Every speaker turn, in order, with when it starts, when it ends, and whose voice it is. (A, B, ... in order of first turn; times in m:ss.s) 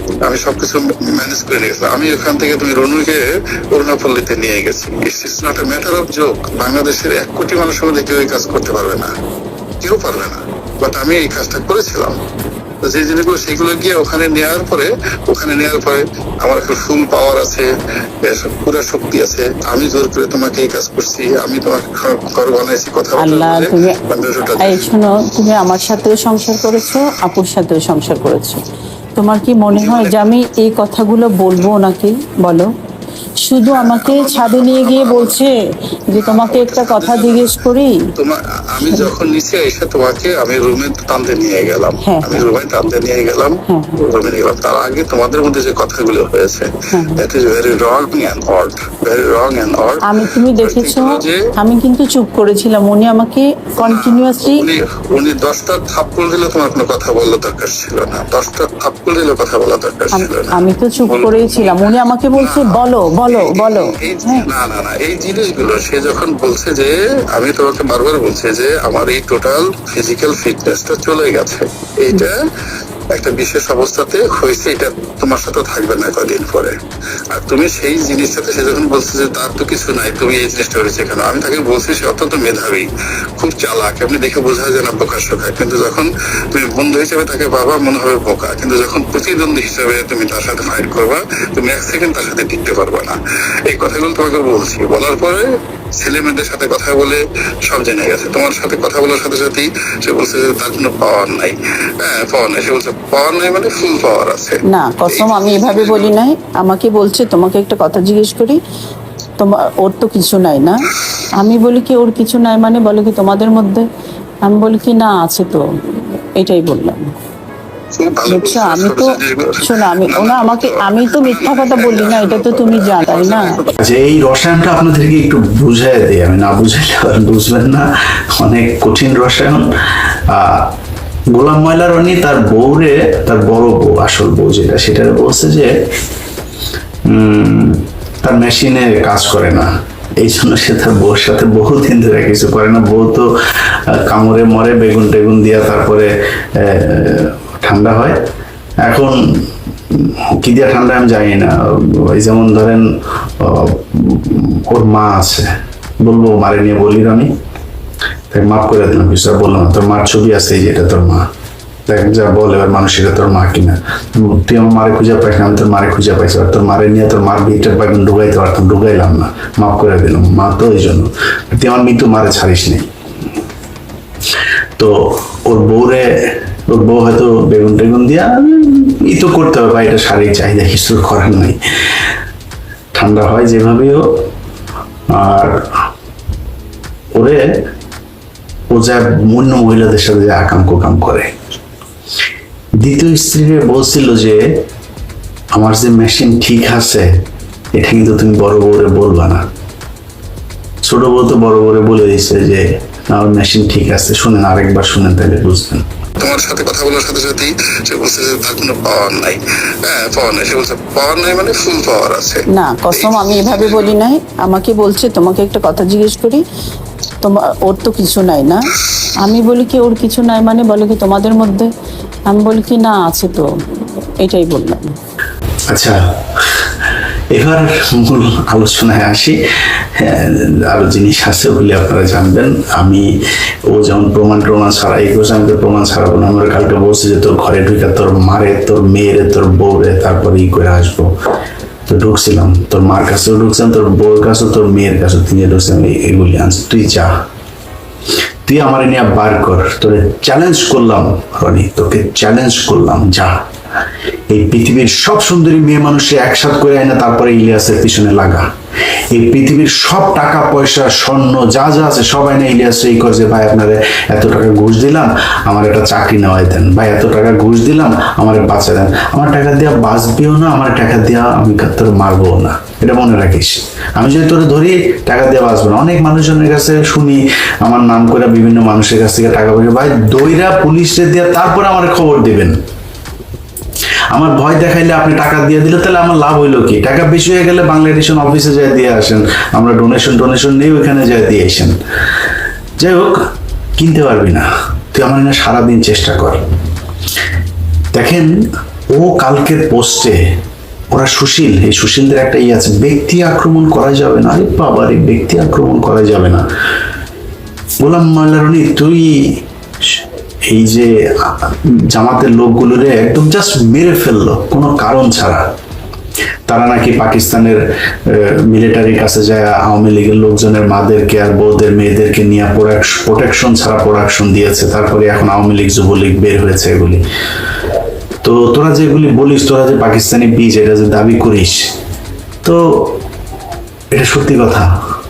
0:00.3-0:09.1 A
0:09.8-0:12.2 A
0:12.8-0:17.7 A
0:18.2-0:24.9 A
0:23.2-0:24.0 B
0:24.6-0:28.6 B
0:29.2-0:32.7 B
0:29.7-0:30.4 A
0:33.4-0:35.5 B
0:33.7-0:35.4 A
0:36.1-0:38.0 B
0:36.2-0:37.6 A
0:38.2-0:50.1 A
0:42.0-0:42.4 B
0:43.7-0:44.0 B
0:46.9-0:47.2 B
0:50.1-0:54.7 B
0:50.6-0:51.4 A
0:53.8-1:12.4 A
1:00.1-1:04.5 B
1:13.1-1:16.8 A
1:17.3-1:46.1 A
1:44.7-1:48.6 B
1:49.4-1:53.8 B
1:54.5-1:57.0 B
1:58.0-2:03.7 A
1:58.3-2:03.6 B
2:03.8-2:10.7 C
2:11.3-2:15.7 C
2:17.1-2:28.2 C
2:28.8-2:29.2 C
2:29.9-2:32.8 C
2:33.4-2:35.5 C
2:36.0-2:37.3 C
2:38.3-2:41.3 C
2:41.9-2:52.9 C
2:54.8-3:01.6 C
3:03.0-3:04.2 C
3:05.1-3:05.6 C
3:07.2-3:07.4 C
3:08.7-3:11.3 C
3:12.8-3:14.4 C
3:15.6-3:17.1 C
3:17.7-3:19.4 C
3:20.8-3:25.8 C
3:26.2-3:34.0 A
3:32.5-3:36.4 B
3:37.2-3:41.7 B
3:42.3-3:43.5 B
3:44.2-3:44.9 B
3:45.7-3:46.7 C
3:47.3-3:49.4 C
3:50.0-3:53.1 C
3:53.7-4:01.1 C
4:01.9-4:07.1 C
4:08.5-4:13.4 C
4:14.3-4:18.5 C
4:19.1-4:42.6 C
4:44.1-4:51.8 C
4:52.8-4:53.2 C
4:53.8-4:56.4 C
4:57.9-4:58.3 C
4:58.9-5:00.2 C
5:00.9-5:06.4 C
5:07.8-5:09.4 C
5:09.9-5:15.4 C
5:16.5-5:27.0 C
5:28.2-5:31.7 C
5:32.4-5:33.0 C
5:33.9-5:34.7 C